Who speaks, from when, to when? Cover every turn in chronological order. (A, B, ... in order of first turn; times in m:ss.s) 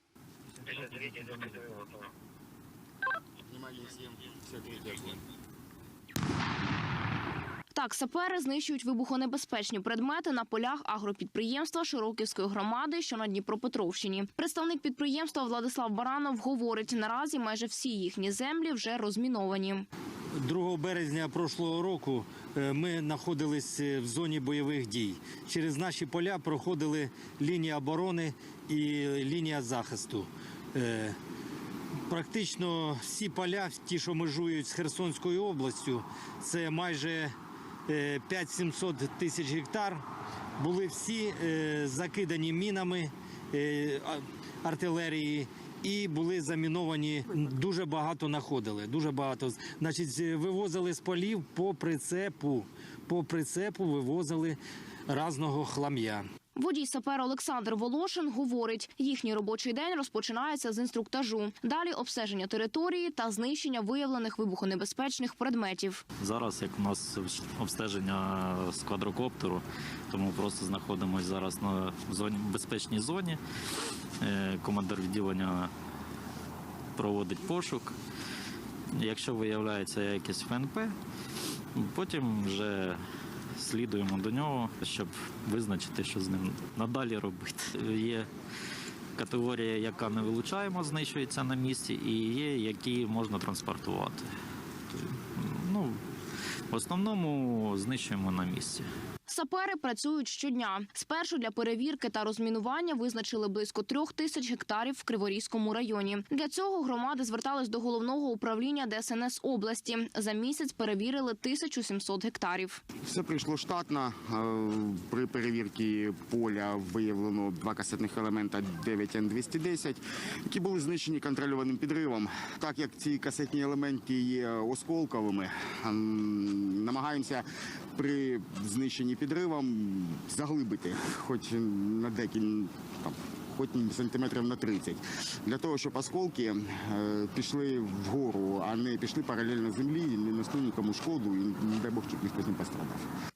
0:00.7-0:01.7 A
0:03.5-0:05.2 A
0:07.7-0:19.9 B
0:20.4-0:31.2 C
0:32.1-0:37.3 C
0:37.9-0:40.0 C
0:40.6-0:56.2 C
0:56.5-1:06.0 B
1:06.2-1:13.4 D
1:14.2-1:15.7 D
1:16.9-1:18.0 D
1:18.9-1:20.9 D
1:21.7-1:23.0 D
1:23.6-1:28.3 D
1:29.2-1:34.2 D
1:34.9-1:36.0 D
1:36.7-1:38.9 D
1:39.3-1:52.8 B
1:53.0-2:07.4 A
2:08.0-2:23.1 A